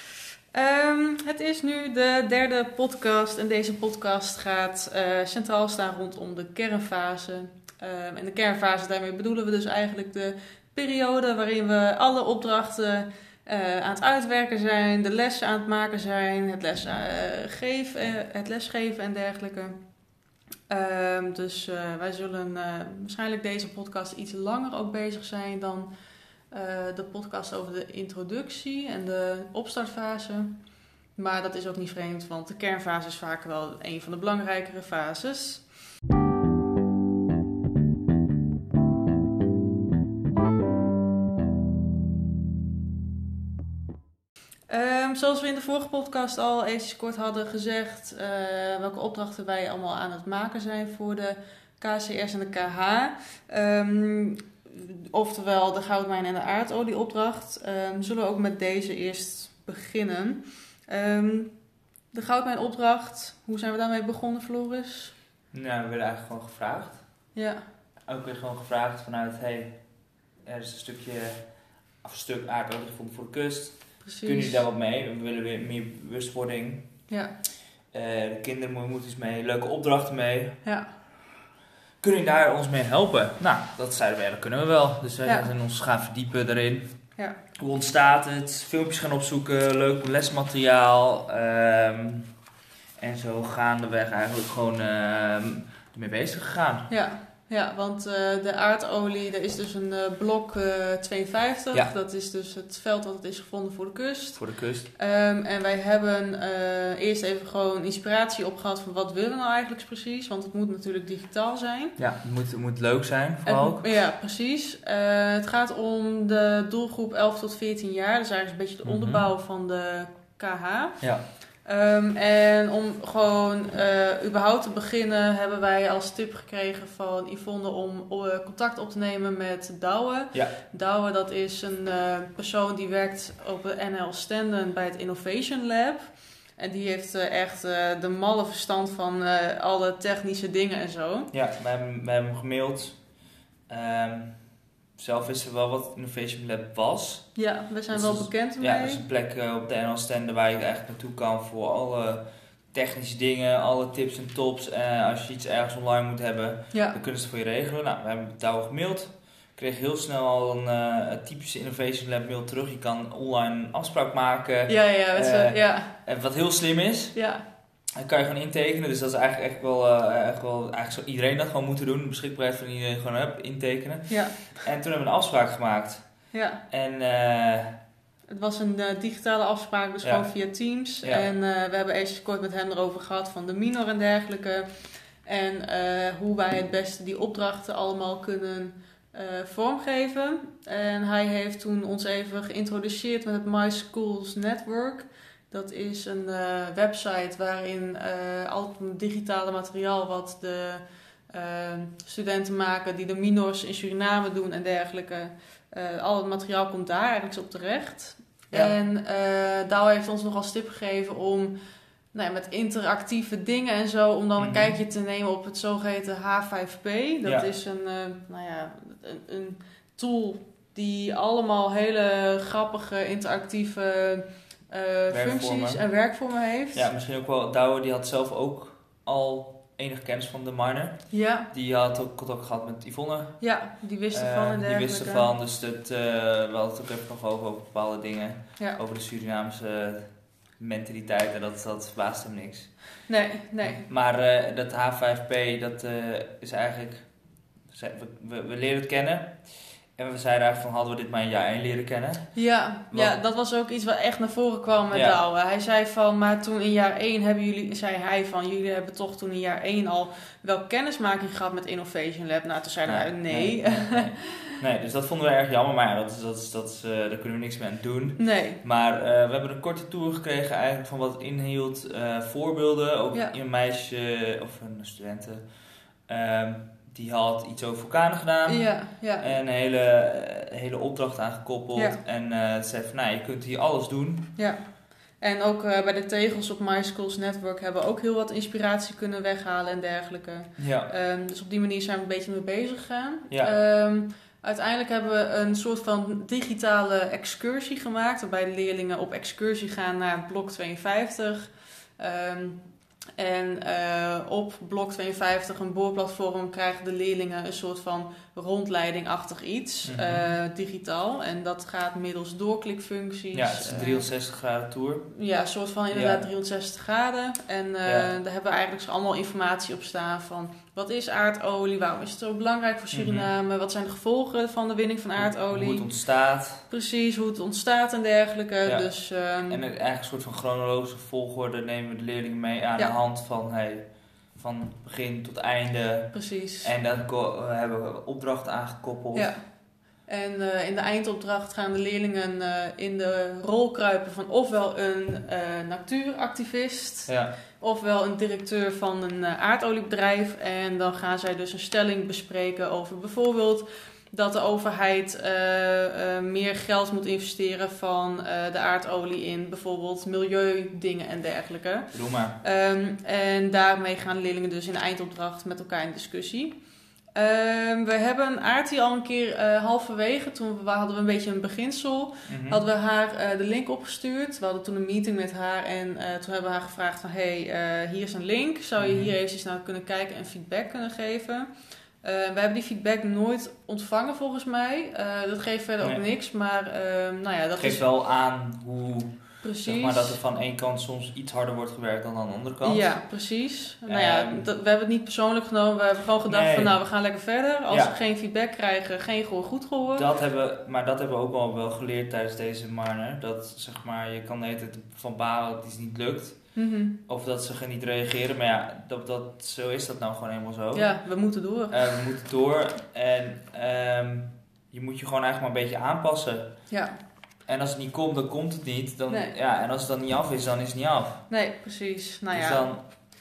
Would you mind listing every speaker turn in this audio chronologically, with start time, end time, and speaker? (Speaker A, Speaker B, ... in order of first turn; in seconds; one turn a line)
Speaker A: 0.5-19.8
Speaker A: 20.7-25.9
Speaker A: 26.5-30.5
Speaker A: 31.2-35.6
Speaker A: 44.7-61.5
Speaker A: 62.1-65.1
Speaker B: 65.5-67.0
Speaker B: 68.1-69.7
Speaker B: 70.5-71.4
Speaker B: 72.0-76.9
Speaker A: 74.0-74.6
Speaker B: 77.9-80.6
Speaker B: 82.0-86.9
Speaker B: 87.6-92.3
Speaker B: 93.0-96.9
Speaker A: 96.9-104.4
Speaker B: 104.4-104.9
Speaker A: 105.0-112.0
Speaker B: 112.0-113.9
Speaker A: 113.5-121.0
Speaker B: 118.8-119.2
Speaker A: 121.7-141.3
Speaker B: 141.3-143.0
Speaker B: 143.7-144.3
Speaker B: 145.0-147.3
Speaker A: 147.4-149.0
Speaker B: 147.9-167.2
Speaker A: 156.7-157.0
Speaker A: 164.7-165.9
Speaker A: 167.2-167.4
Speaker B: 168.0-176.0
Speaker A: 174.1-174.4
Speaker A: 176.3-176.6
Speaker B: 176.7-177.7
Speaker A: 178.3-184.7
Speaker A: 185.2-211.5
Speaker A: 212.1-226.9
Speaker B: 214.4-214.8
Speaker B: 225.1-225.8
Speaker B: 226.7-231.0
Speaker A: 231.1-231.5
Speaker B: 231.5-233.4
Speaker A: 233.4-235.3
Speaker B: 234.1-240.1
Speaker B: 240.6-242.7
Speaker A: 243.1-243.9
Speaker B: 243.6-247.1
Speaker B: 247.7-249.4
Speaker B: 250.0-252.3
Speaker A: 252.3-264.6
Speaker B: 254.9-255.2
Speaker B: 262.9-275.4
Speaker A: 268.2-268.6
Speaker B: 276.1-278.7
Speaker A: 278.5-279.3
Speaker B: 279.2-284.3
Speaker A: 285.2-302.6
Speaker B: 290.6-290.9
Speaker A: 303.2-314.1
Speaker B: 309.9-310.3
Speaker B: 313.3-315.0
Speaker A: 315.1-325.9
Speaker B: 315.9-316.3
Speaker B: 317.9-318.1
Speaker B: 322.9-323.3
Speaker B: 325.2-326.6
Speaker A: 326.7-329.6
Speaker B: 329.5-336.1
Speaker A: 336.1-336.7
Speaker B: 336.6-339.3
Speaker A: 339.1-339.4
Speaker A: 340.1-361.9
Speaker B: 361.9-362.4
Speaker A: 362.4-366.5
Speaker A: 367.2-381.5
Speaker B: 372.3-372.6
Speaker B: 378.8-379.1
Speaker A: 382.0-387.8
Speaker B: 387.6-392.9
Speaker A: 389.4-390.2
Speaker A: 392.6-400.1
Speaker B: 393.9-394.5
Speaker B: 396.3-396.8
Speaker B: 397.7-397.9
Speaker B: 400.0-406.4
Speaker A: 406.6-407.0
Speaker B: 407.1-410.9
Speaker A: 410.7-411.8
Speaker B: 411.7-416.5
Speaker A: 416.7-417.0
Speaker B: 417.5-421.2
Speaker A: 421.3-422.7
Speaker B: 422.3-422.8